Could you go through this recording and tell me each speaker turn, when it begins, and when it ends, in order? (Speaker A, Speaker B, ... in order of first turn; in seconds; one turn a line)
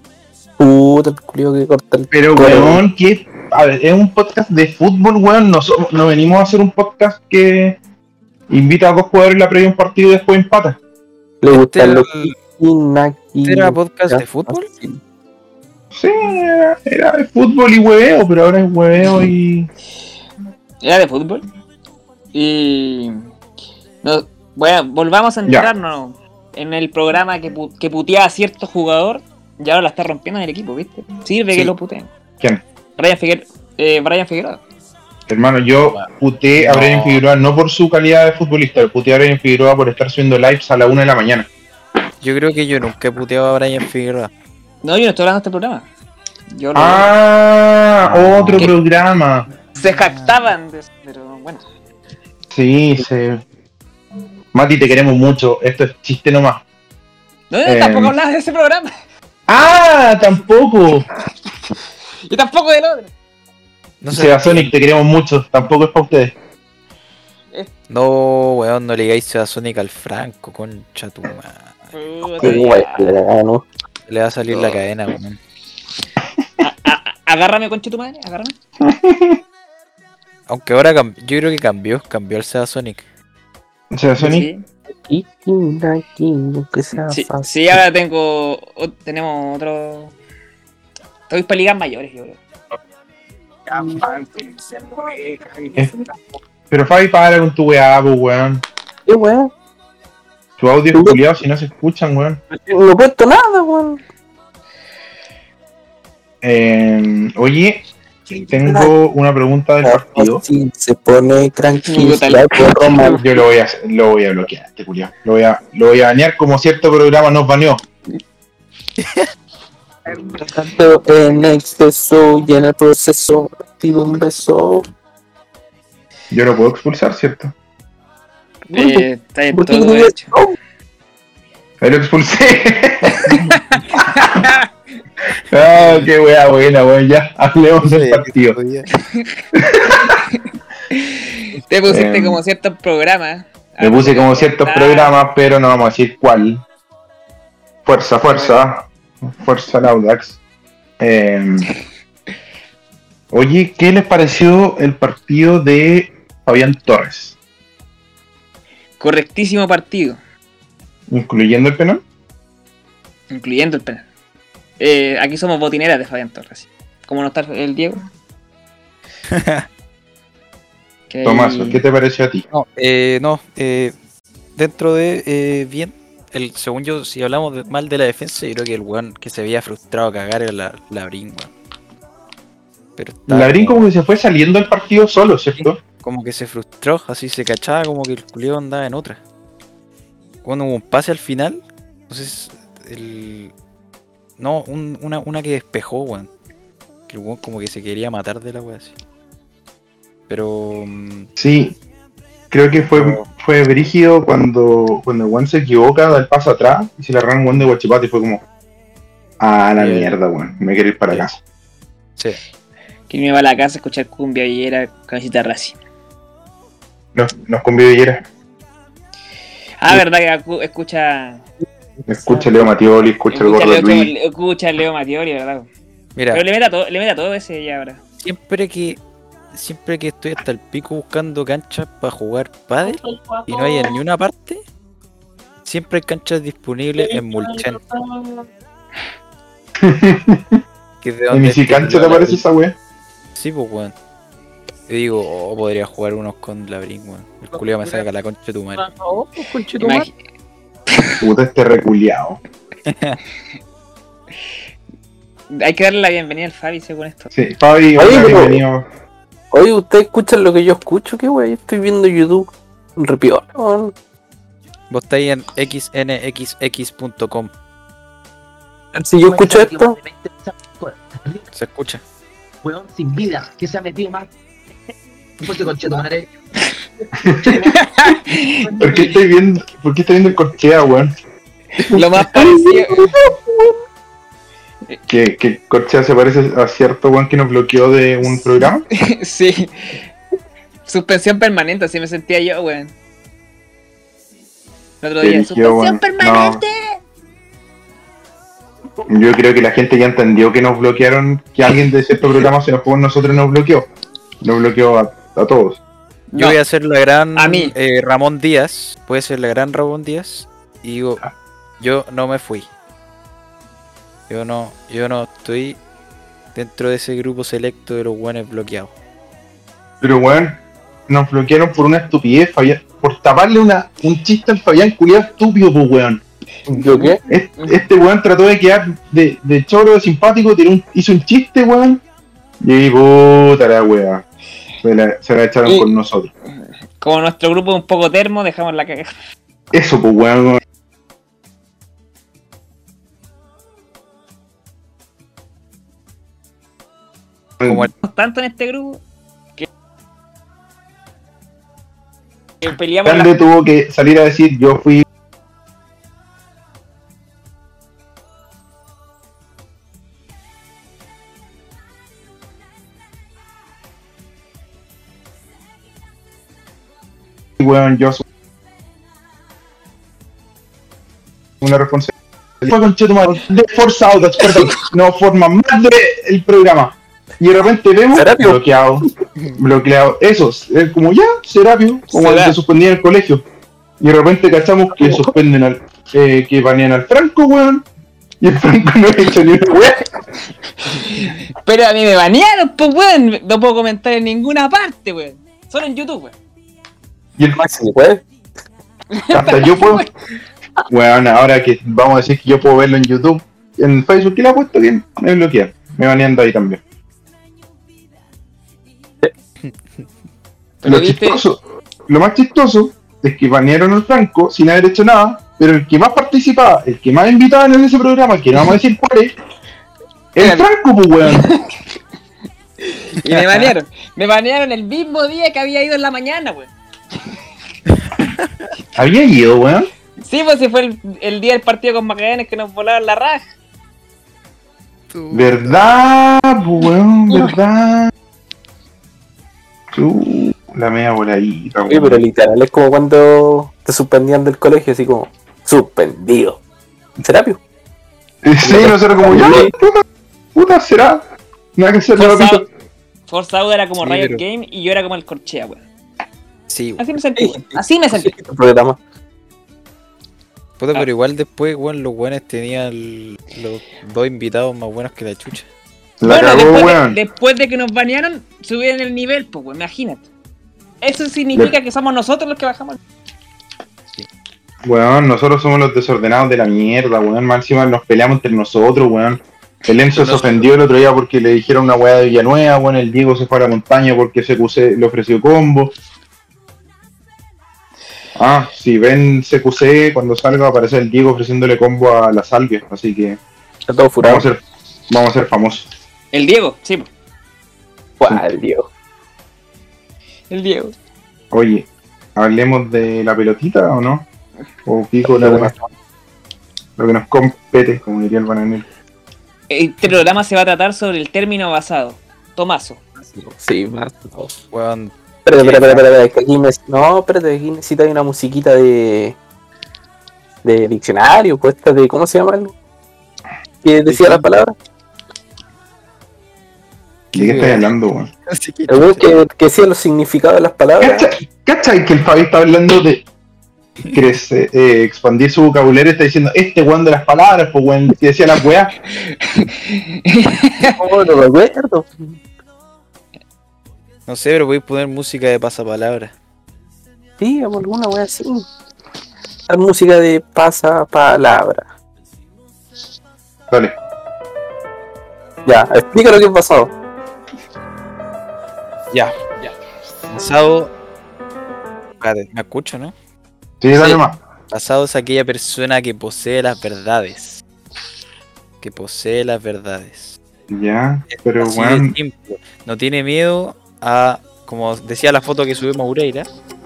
Speaker A: 0.6-2.8
Speaker B: 2.1-7.8
Speaker B: 8.5-10.8
Speaker A: 11.4-15.0
Speaker C: 11.5-12.3
Speaker C: 13.4-14.7
Speaker B: 15.9-19.7
Speaker D: 20.8-21.4
Speaker D: 22.3-23.2
Speaker D: 24.0-32.1
Speaker D: 33.0-34.6
Speaker B: 35.3-41.5
Speaker C: 36.6-37.2
Speaker C: 42.2-44.3
Speaker D: 44.8-45.9
Speaker D: 46.5-47.1
Speaker B: 46.7-49.5
Speaker C: 48.0-48.8
Speaker D: 49.8-51.6
Speaker C: 49.8-50.3
Speaker B: 52.5-53.4
Speaker B: 54.5-56.6
Speaker D: 57.5-58.9
Speaker B: 57.6-58.1
Speaker B: 59.5-61.0
Speaker D: 62.3-63.1
Speaker C: 64.0-64.7
Speaker B: 64.1-66.3
Speaker C: 67.9-71.9
Speaker D: 71.9-73.1
Speaker A: 72.4-73.7
Speaker C: 74.1-75.4
Speaker D: 76.6-78.5
Speaker B: 78.8-79.4
Speaker C: 80.5-83.0
Speaker B: 83.9-84.5
Speaker D: 84.2-84.6
Speaker A: 84.9-87.8
Speaker D: 87.1-90.1
Speaker D: 91.3-92.4
Speaker E: 93.7-96.1
Speaker B: 96.7-98.6
Speaker A: 99.1-99.5
Speaker B: 100.6-102.4
Speaker A: 100.9-101.2
Speaker A: 102.5-104.0
Speaker B: 106.4-107.8
Speaker B: 108.3-110.4
Speaker A: 108.4-108.9
Speaker A: 109.8-113.4
Speaker D: 111.8-113.2
Speaker B: 113.1-117.8
Speaker A: 120.3-124.8
Speaker B: 126.3-127.5
Speaker D: 128.7-130.3
Speaker A: 129.5-130.5
Speaker B: 131.8-133.4
Speaker D: 134.1-134.7
Speaker B: 135.5-138.6
Speaker C: 135.8-136.1
Speaker C: 137.8-138.9
Speaker B: 139.7-140.1
Speaker D: 140.9-145.1
Speaker B: 141.8-142.4
Speaker B: 143.8-146.6
Speaker B: 147.8-150.4
Speaker B: 151.0-151.7
Speaker B: 153.3-157.3
Speaker D: 159.0-160.2
Speaker B: 161.1-162.0
Speaker D: 163.3-164.0
Speaker D: 164.8-168.0
Speaker C: 169.3-169.7
Speaker D: 171.1-171.8
Speaker B: 171.2-172.4
Speaker C: 172.5-173.9
Speaker C: 174.6-181.5
Speaker C: 183.0-183.8
Speaker B: 183.3-185.8
Speaker C: 185.6-189.2
Speaker C: 190.4-193.5
Speaker C: 194.4-196.3
Speaker C: 197.1-198.9
Speaker C: 200.3-201.3
Speaker B: 201.4-201.8
Speaker B: 202.5-208.4
Speaker C: 202.9-203.3
Speaker B: 209.4-211.4
Speaker C: 209.8-210.1
Speaker D: 213.1-215.8
Speaker B: 217.1-218.2
Speaker D: 219.8-221.4
Speaker B: 222.1-224.1
Speaker C: 222.1-222.5
Speaker D: 223.3-225.7
Speaker C: 226.2-226.4
Speaker D: 226.3-228.0
Speaker C: 228.2-229.0
Speaker C: 229.5-234.6
Speaker C: 235.6-237.8
Speaker B: 239.8-240.6
Speaker C: 241.0-242.4
Speaker B: 241.3-242.7
Speaker C: 243.3-243.9
Speaker C: 244.9-248.9
Speaker E: 247.5-248.0
Speaker A: 249.0-250.1
Speaker D: 249.8-250.1
Speaker B: 251.2-252.4
Speaker C: 252.8-253.2
Speaker D: 255.5-257.3
Speaker B: 257.3-258.9
Speaker A: 258.0-258.6
Speaker A: 259.5-263.9
Speaker C: 264.9-267.5
Speaker A: 268.9-269.9
Speaker E: 269.2-271.4
Speaker C: 271.5-272.0
Speaker E: 272.6-274.3
Speaker E: 275.4-276.3
Speaker B: 277.2-277.7
Speaker E: 277.4-277.7
Speaker D: 277.6-278.6
Speaker E: 278.6-279.1
Speaker B: 278.8-281.1
Speaker D: 281.9-283.1
Speaker B: 281.9-283.2
Speaker B: 285.1-288.9
Speaker D: 288.9-290.0
Speaker D: 290.9-292.9
Speaker D: 295.0-297.0
Speaker B: 295.2-296.6
Speaker B: 299.1-303.9
Speaker B: 304.4-305.8
Speaker D: 306.3-306.6
Speaker C: 306.3-311.2
Speaker D: 307.4-307.7
Speaker C: 311.8-312.7
Speaker C: 314.3-315.8
Speaker C: 316.5-318.9
Speaker B: 320.0-326.2
Speaker A: 326.7-327.2
Speaker B: 327.2-332.0
Speaker B: 332.6-334.2
Speaker B: 334.8-336.3
Speaker D: 337.0-339.1
Speaker B: 339.7-340.6
Speaker B: 347.6-347.9
Speaker C: 347.6-347.9
Speaker D: 348.0-349.0
Speaker D: 352.6-353.3
Speaker B: 353.0-355.0
Speaker B: 367.6-368.2
Speaker B: 371.6-379.1
Speaker A: 378.1-378.6
Speaker B: 379.6-383.4
Speaker D: 382.1-382.6
Speaker B: 384.0-387.8
Speaker A: 385.0-385.3
Speaker B: 388.4-390.0
Speaker D: 390.9-396.3
Speaker A: 397.5-398.2
Speaker D: 399.1-400.1
Speaker B: 399.3-400.1
Speaker B: 400.9-406.8
Speaker D: 410.8-411.4
Speaker B: 410.8-419.3
Speaker B: 420.3-421.5
Speaker D: 420.4-420.7
Speaker D: 423.2-426.7
Speaker B: 428.9-429.9
Speaker D: 430.2-433.4
Speaker C: 435.1-435.9
Speaker B: 435.3-438.1
Speaker B: 439.9-442.2
Speaker A: 441.9-446.6
Speaker A: 447.2-447.6
Speaker B: 448.4-450.0
Speaker A: 448.6-449.7
Speaker B: 450.5-451.2
Speaker B: 451.8-452.7
Speaker D: 452.1-452.6
Speaker D: 453.3-455.8
Speaker C: 454.0-454.4
Speaker C: 456.7-457.1
Speaker D: 457.0-458.3
Speaker A: 457.4-459.0
Speaker C: 460.8-465.7
Speaker B: 466.2-467.2
Speaker D: 466.2-470.2
Speaker D: 471.0-473.0
Speaker B: 474.8-485.9
Speaker C: 480.1-480.7
Speaker B: 488.4-493.4
Speaker A: 493.9-494.4
Speaker B: 494.2-495.9
Speaker D: 496.3-497.1
Speaker A: 498.2-498.9
Speaker D: 500.5-500.9
Speaker B: 501.5-504.3
Speaker B: 504.9-505.7
Speaker A: 505.4-505.8
Speaker B: 507.0-508.9
Speaker D: 509.7-513.0
Speaker A: 513.3-514.5
Speaker C: 514.7-516.0
Speaker A: 515.4-519.4
Speaker A: 520.6-522.7
Speaker A: 523.8-524.7
Speaker C: 524.0-524.5
Speaker A: 527.3-527.8
Speaker B: 527.3-528.3
Speaker C: 528.5-529.3
Speaker A: 528.9-531.3
Speaker B: 531.0-533.2
Speaker B: 534.1-538.9
Speaker D: 539.4-540.9
Speaker A: 540.8-542.3
Speaker C: 544.3-546.3
Speaker A: 547.4-548.7
Speaker A: 549.7-551.8
Speaker B: 553.7-553.9
Speaker A: 555.6-556.9
Speaker C: 559.1-559.4
Speaker C: 560.3-560.9
Speaker C: 562.2-563.1
Speaker B: 563.8-564.4
Speaker C: 564.7-567.6
Speaker C: 568.8-570.4
Speaker B: 570.7-572.1
Speaker C: 571.3-576.5